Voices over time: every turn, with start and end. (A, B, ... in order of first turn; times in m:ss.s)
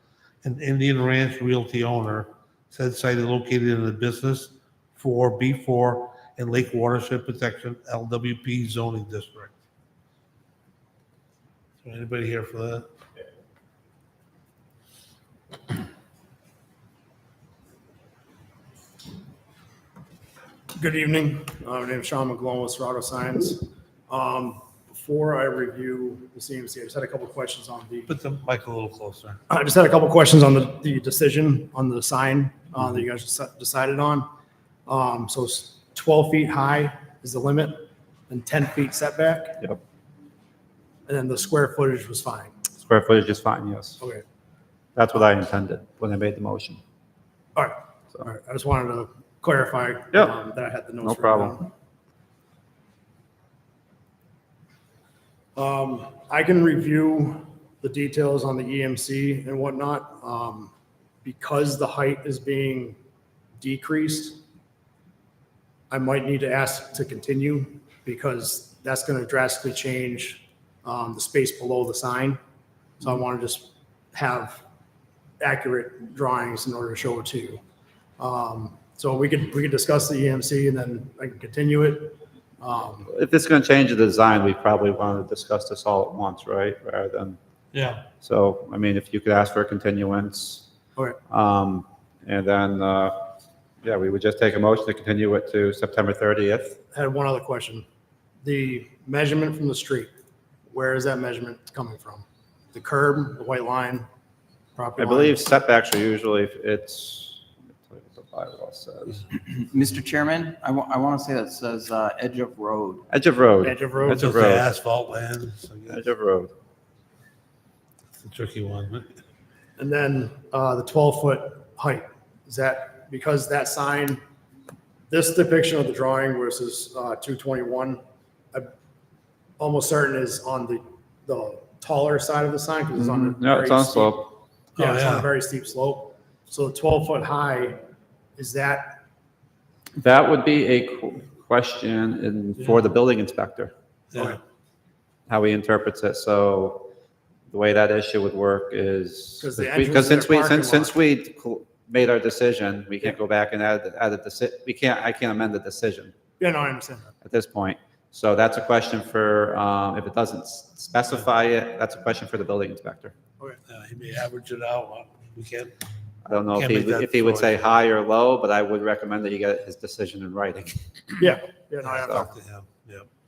0:00.4-0:09.6 A
0:11.8-0:12.9 A
0:20.8-0:28.1 B
0:28.1-0:29.4 A
0:29.5-0:34.3 B
0:34.9-0:39.6 B
0:41.1-0:42.5 B
0:42.8-0:44.0 C
0:45.0-0:46.8 C
0:47.6-0:51.7 B
0:51.0-0:51.6 C
0:55.6-1:00.7 B
1:01.2-1:03.0 B
1:03.6-1:04.4 B
1:05.9-1:12.4 B
1:13.0-1:14.6 B
1:15.4-1:17.6 B
1:18.2-1:23.1 B
1:23.1-1:27.4 C
1:27.7-1:28.0 A
1:28.2-1:30.7 C
1:31.3-1:33.2 C
1:33.8-1:36.8 C
1:36.9-1:37.8 B
1:38.4-1:40.1 B
1:40.7-1:44.1 B
1:44.8-1:45.4 B
1:45.0-1:49.3 C
1:49.4-1:53.1 D
1:53.1-1:54.7 C
1:53.6-1:54.3 B
1:54.1-1:56.0 A
1:55.9-1:56.5 C
1:58.2-1:59.1 A
1:59.8-2:04.2 B
2:05.1-2:08.0 B
2:09.6-2:14.2 B
2:13.0-2:14.3 C
2:14.8-2:17.8 B
2:14.8-2:15.3 A
2:18.4-2:19.0 B
2:20.0-2:23.7 C
2:24.1-2:24.4 A
2:25.3-2:26.9 C
2:27.5-2:36.1 C
2:29.4-2:31.0 B
2:36.4-2:37.1 B
2:37.2-2:43.2 C
2:43.7-2:45.8 A
2:46.2-2:51.2 C
2:46.5-2:47.6 A
2:51.2-2:52.4 B
2:51.9-2:52.3 C
2:52.2-2:53.1 A